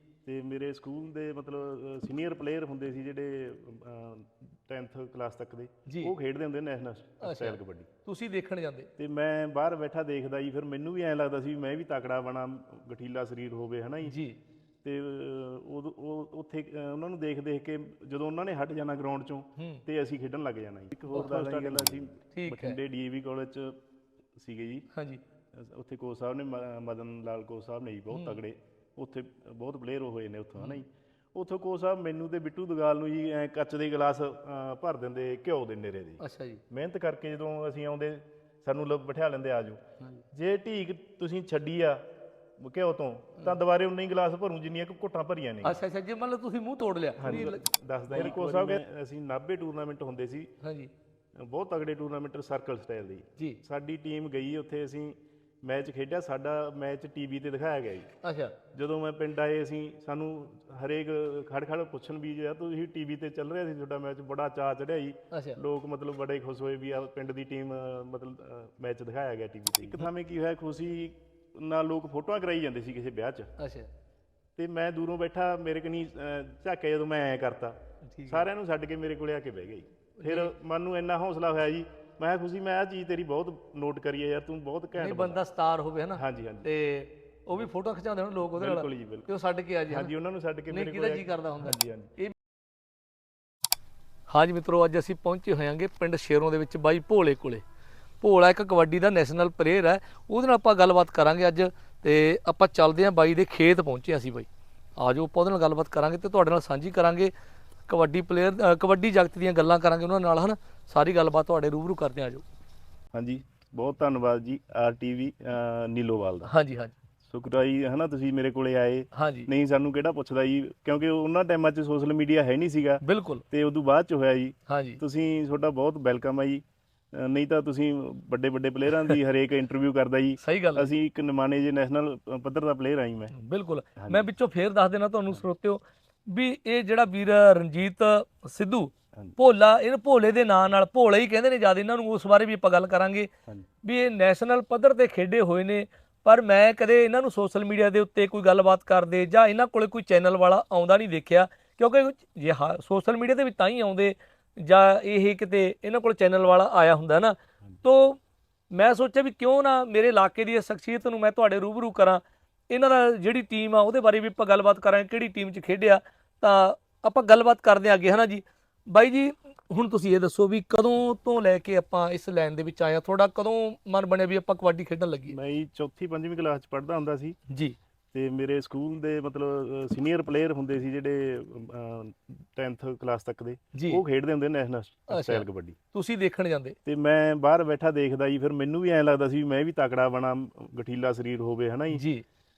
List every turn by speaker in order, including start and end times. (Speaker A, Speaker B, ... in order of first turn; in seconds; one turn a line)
Speaker A: 0.2-7.9
Speaker B: 5.8-6.1
Speaker B: 7.2-8.9
Speaker A: 9.0-14.2
Speaker B: 14.0-14.4
Speaker A: 14.8-23.7
Speaker B: 19.6-19.8
Speaker B: 21.1-22.8
Speaker A: 24.3-24.9
Speaker B: 24.9-25.2
Speaker A: 25.5-39.8
Speaker B: 28.1-28.4
Speaker B: 36.2-36.6
Speaker A: 40.3-42.0
Speaker A: 42.6-45.8
Speaker B: 45.6-48.8
Speaker A: 47.2-50.5
Speaker B: 50.6-50.9
Speaker A: 51.4-58.1
Speaker B: 58.2-58.6
Speaker A: 58.7-73.5
Speaker B: 65.3-65.6
Speaker B: 73.6-73.9
Speaker A: 74.6-77.8
Speaker B: 78.1-78.5
Speaker A: 78.3-85.4
Speaker B: 80.2-80.5
Speaker B: 85.0-90.1
Speaker A: 86.1-86.7
Speaker A: 88.5-89.3
Speaker A: 89.9-92.1
Speaker B: 90.7-92.3
Speaker B: 94.3-97.6
Speaker B: 98.2-107.3
Speaker B: 107.9-112.4
Speaker A: 113.1-116.5
Speaker B: 116.4-117.0
Speaker A: 117.3-133.3
Speaker B: 119.1-119.5
Speaker B: 123.0-123.4
Speaker B: 124.7-125.0
Speaker B: 130.4-130.9
Speaker B: 133.3-143.3
Speaker A: 134.0-134.3
Speaker B: 143.8-158.2
Speaker B: 158.7-175.4
Speaker A: 175.3-177.4
Speaker B: 177.5-177.8
Speaker A: 178.1-185.8
Speaker B: 183.7-184.0
Speaker B: 185.1-186.8
Speaker A: 186.8-192.0
Speaker B: 191.9-192.2